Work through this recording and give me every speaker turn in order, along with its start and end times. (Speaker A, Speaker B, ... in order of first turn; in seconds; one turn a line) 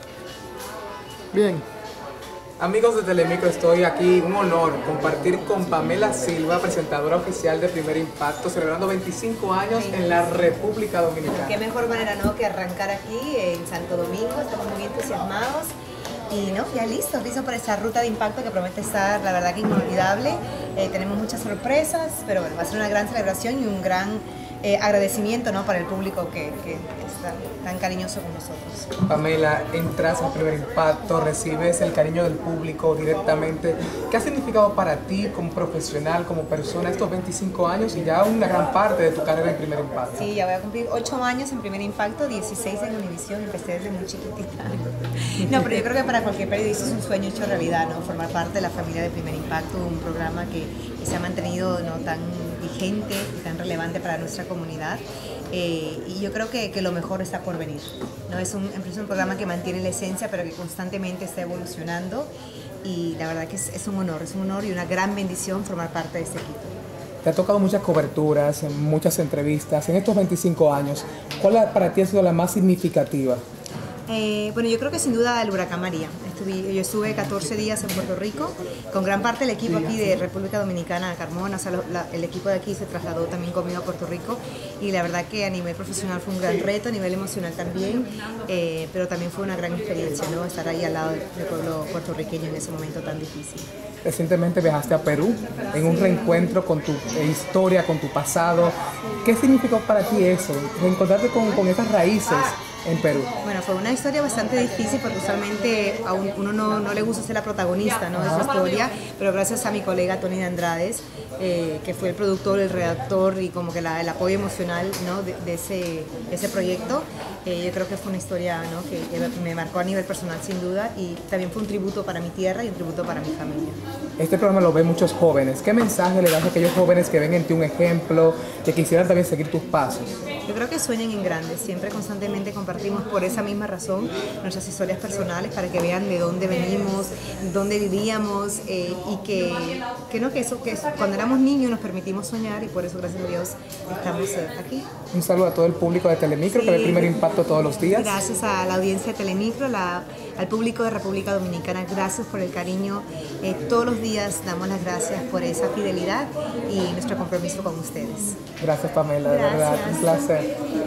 Speaker A: 1.3-1.6
Speaker A: 2.6-11.6
Speaker B: 9.7-10.5
Speaker B: 11.2-15.7
Speaker B: 16.3-28.9
Speaker A: 29.1-40.2
Speaker B: 40.1-62.3
Speaker B: 62.8-66.8
Speaker A: 67.2-73.4
Speaker B: 74.1-93.7
Speaker A: 94.0-103.3
Speaker B: 103.4-123.8
Speaker A: 108.2-108.5
Speaker A: 124.2-130.1
Speaker B: 130.5-144.9
Speaker A: 145.1-148.2
Speaker B: 146.5-147.2
Speaker B: 147.8-158.4
Speaker A: 158.6-160.5
Speaker B: 159.2-160.2